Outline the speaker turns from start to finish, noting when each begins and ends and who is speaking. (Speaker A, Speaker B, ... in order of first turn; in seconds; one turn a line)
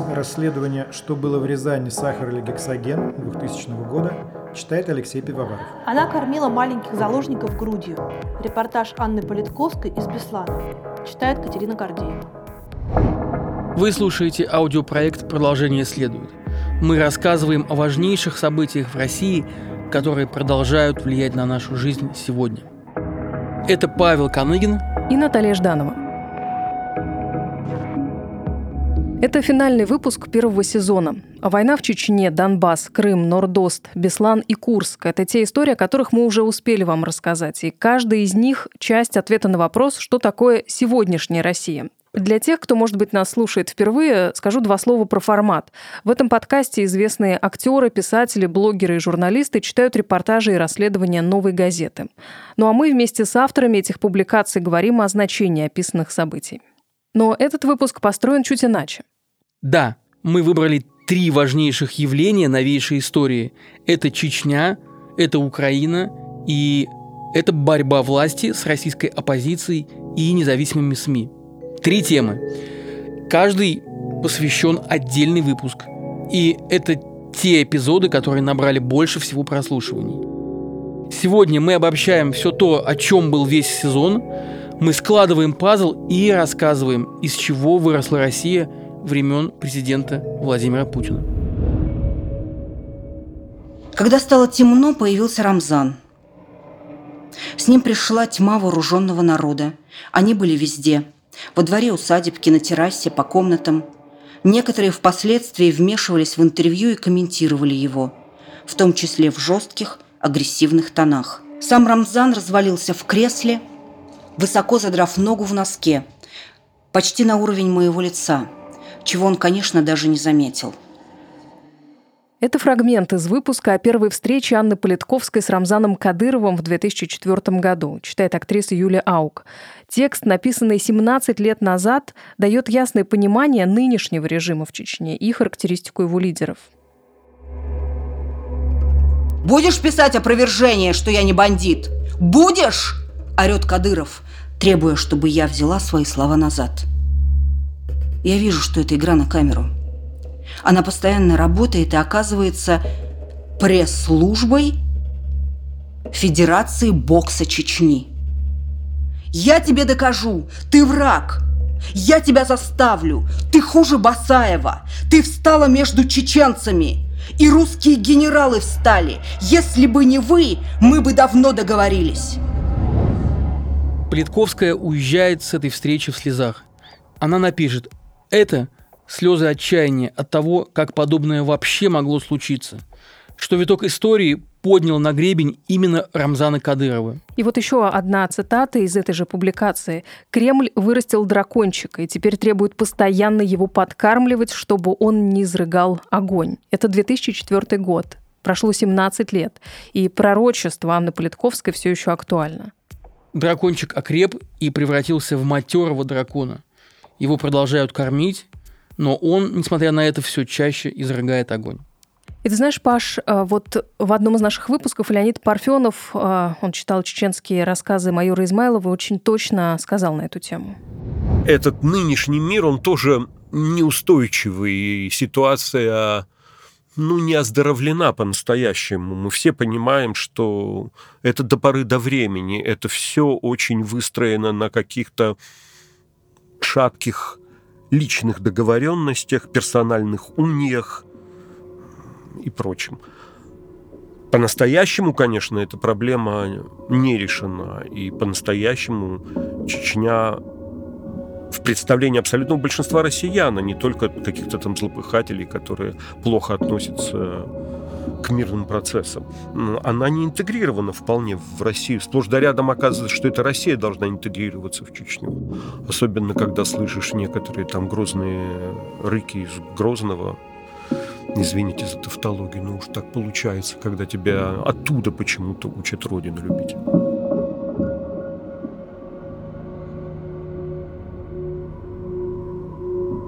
Speaker A: 0.1-5.6
Speaker B: 5.8-12.3
Speaker C: 13.8-22.7
Speaker C: 23.7-24.9
Speaker D: 25.1-26.0
Speaker D: 29.2-56.6
Speaker D: 57.1-59.0
Speaker C: 59.6-72.4
Speaker C: 73.3-80.2
Speaker C: 81.1-84.3
Speaker C: 84.8-91.3
Speaker E: 94.0-96.0
Speaker E: 97.6-103.9
Speaker E: 104.4-108.2
Speaker E: 108.7-113.6
Speaker E: 114.4-116.1
Speaker E: 116.9-118.5
Speaker E: 119.0-120.8
Speaker D: 122.4-136.7
Speaker E: 139.4-146.9
Speaker E: 148.2-149.7
Speaker E: 150.6-152.8
Speaker E: 153.6-154.8
Speaker E: 156.1-158.1
Speaker E: 159.3-172.4
Speaker C: 174.1-176.6
Speaker C: 177.2-182.8
Speaker C: 183.4-187.2
Speaker D: 187.4-202.7
Speaker C: 203.3-206.6
Speaker C: 207.2-208.5
Speaker C: 209.0-211.8
Speaker D: 212.4-220.8
Speaker F: 221.4-226.3
Speaker F: 227.0-235.4
Speaker F: 236.6-237.4
Speaker F: 237.9-241.1
Speaker F: 242.4-243.0
Speaker F: 244.3-250.4
Speaker F: 251.5-257.5
Speaker F: 258.2-270.4
Speaker F: 271.4-276.8